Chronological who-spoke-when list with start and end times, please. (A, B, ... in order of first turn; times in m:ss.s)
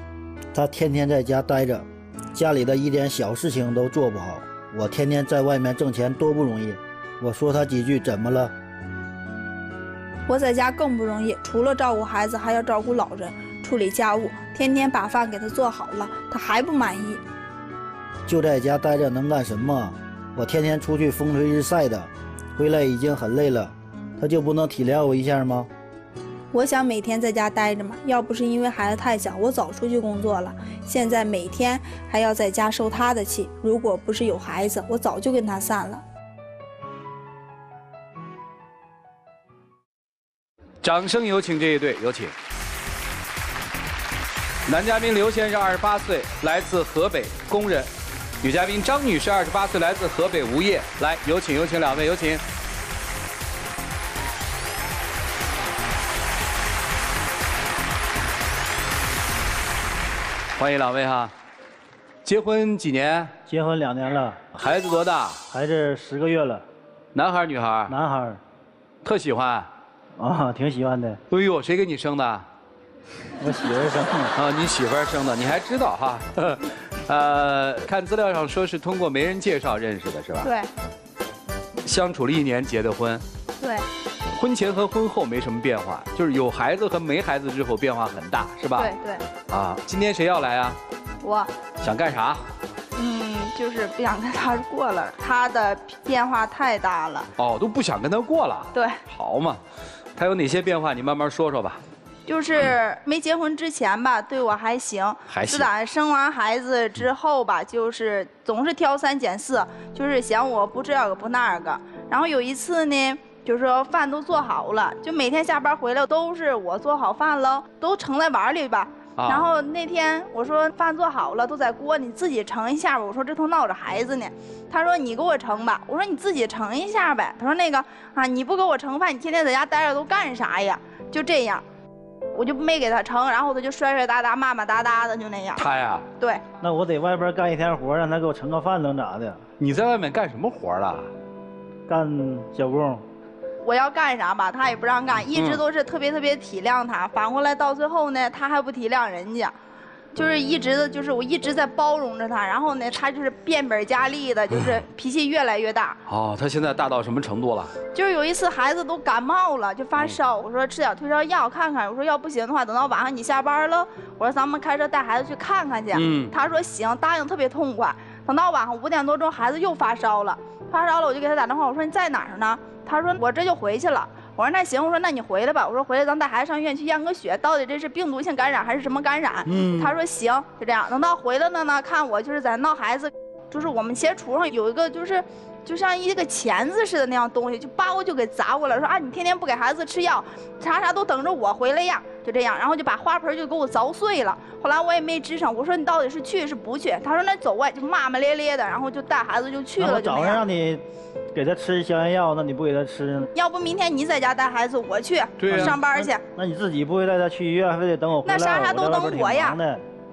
0:00.5-0:08.5 A
0:10.3-0:17.2 B
0:18.2-0:25.7 A
0:26.5-0:36.0 B
0:40.8-0:42.3 C
0:44.6-0:47.9 C
0:48.4-0:52.4 C
1:00.6-1:01.3 C
1:02.2-1:03.3 C
1:03.5-1:04.5 A
1:04.5-1:05.4 C
1:05.5-1:06.6 A
1:07.1-1:08.0 C
1:07.9-1:08.4 A
1:09.0-1:09.7 C
1:10.2-1:11.2 A
1:11.3-1:12.4 C
1:13.4-1:14.3 A
1:14.3-1:20.5 C
1:20.4-1:20.7 B
1:21.8-1:23.2 C
1:23.6-1:23.8 B
1:24.2-1:28.9 C
1:28.8-1:29.3 B
1:29.5-1:30.8 C
1:31.2-1:31.5 B
1:31.8-1:32.4 C
1:32.9-1:37.3 B
1:37.4-1:39.6 C
1:38.7-1:39.0 B
1:40.2-1:41.8 C
1:42.2-2:11.6 B
1:45.3-1:45.7 C
1:59.2-1:59.4 C
2:12.3-2:16.4 B
2:15.6-2:16.0 C
2:16.6-2:19.4 A
2:19.6-2:21.1 C
2:21.9-2:23.0 A
2:23.6-2:29.5 B
2:25.3-2:25.6 C
2:30.1-2:36.0 B
2:36.1-2:37.7 C
2:37.9-3:20.4 B
2:45.9-2:46.3 C
2:59.5-2:59.9 C
3:19.8-3:23.3 A
3:23.3-3:26.2 B
3:25.4-3:25.8 C
3:25.5-3:29.8 A
3:28.2-3:29.6 B